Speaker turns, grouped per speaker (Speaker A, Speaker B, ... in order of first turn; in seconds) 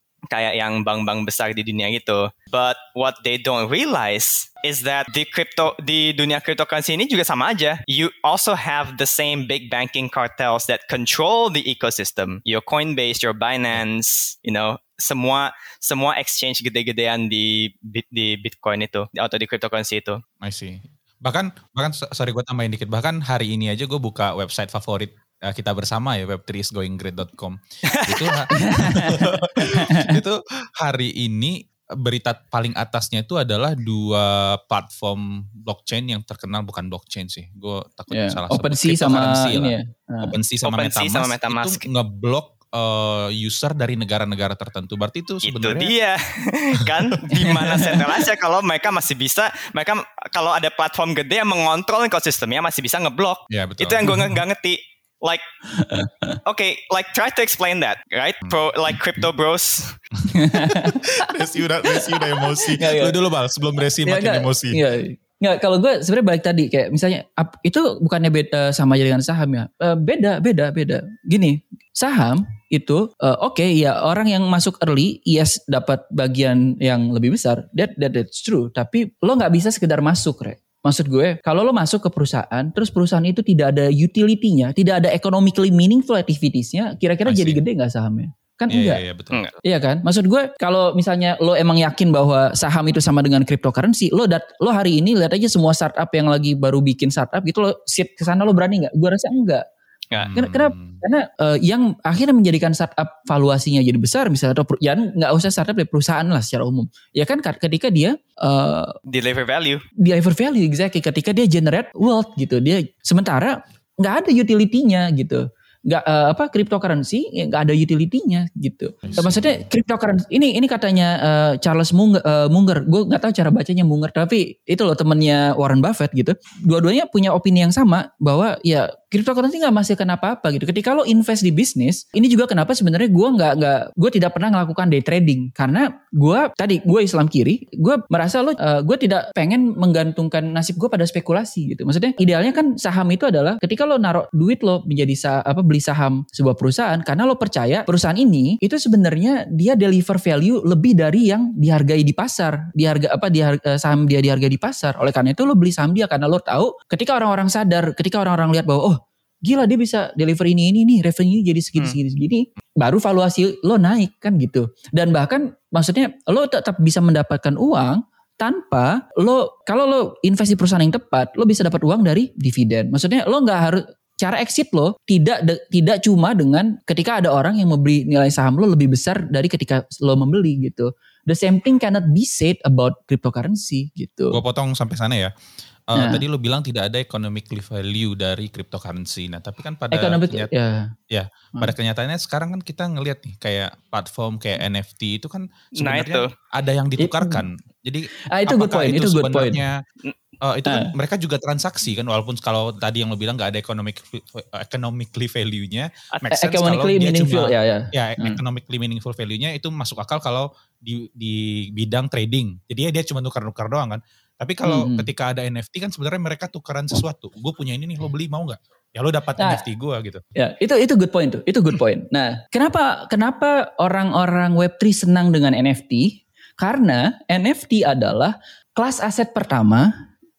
Speaker A: 0.3-20.2, 27.9-28.5, 40.6-41.9, 45.4-55.4, 56.5-60.0, 109.1-109.8, 195.8-196.3
Speaker B: 20.4-45.9, 53.5-54.2, 60.3-64.8, 87.3-87.6, 88.7-89.4, 100.2-101.0, 119.0-119.6, 184.3-185.3, 185.9-190.5, 191.1-199.8, 200.4-220.2
Speaker C: 28.5-30.2, 38.1-40.4, 47.4-48.0, 54.1-54.3, 55.7-56.4, 60.3-61.3, 61.9-63.2, 64.0-89.0, 89.6-99.7, 100.3-108.9, 110.0-184.4, 186.0-186.2, 189.9-190.9, 197.0-197.4, 198.3-199.6, 200.7-200.9, 206.3-208.4, 214.7-215.1, 220.4-229.9